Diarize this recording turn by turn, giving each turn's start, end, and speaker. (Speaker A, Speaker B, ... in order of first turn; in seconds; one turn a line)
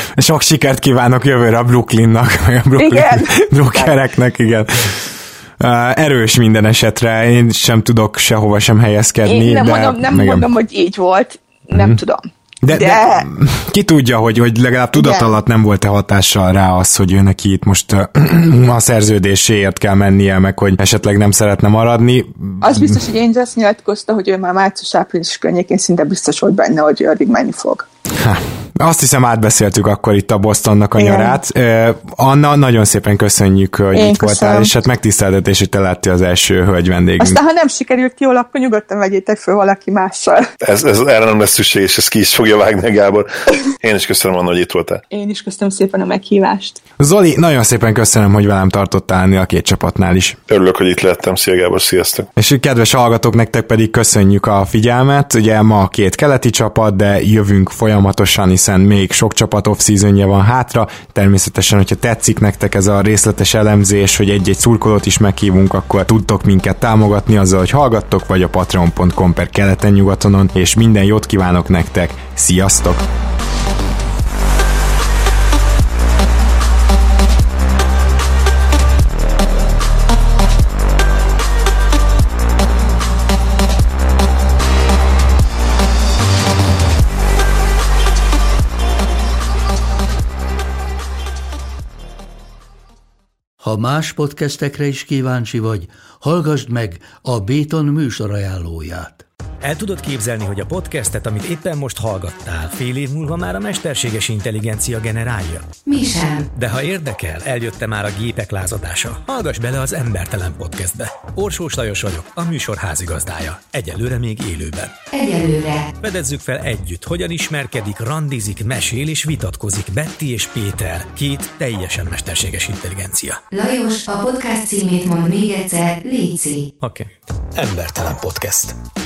Speaker A: 0.2-10.4
Speaker B: 2.8-3.9
Speaker B: 9.2-13.3
Speaker A: 12.6-23.0
Speaker B: 14.9-15.3
Speaker B: 22.6-27.9
Speaker A: 28.1-37.4
Speaker B: 31.0-31.4
Speaker B: 33.9-34.7
Speaker B: 37.2-40.5
Speaker C: 40.6-45.0
Speaker B: 45.1-46.8
Speaker A: 47.0-50.4
Speaker C: 50.5-52.3
Speaker A: 52.4-73.0
Speaker D: 93.6-99.2
Speaker E: 99.6-105.7
Speaker F: 105.8-106.5
Speaker E: 106.5-115.0
Speaker F: 115.1-115.9
Speaker E: 116.0-123.4
Speaker F: 123.5-126.7
Speaker E: 126.8-128.8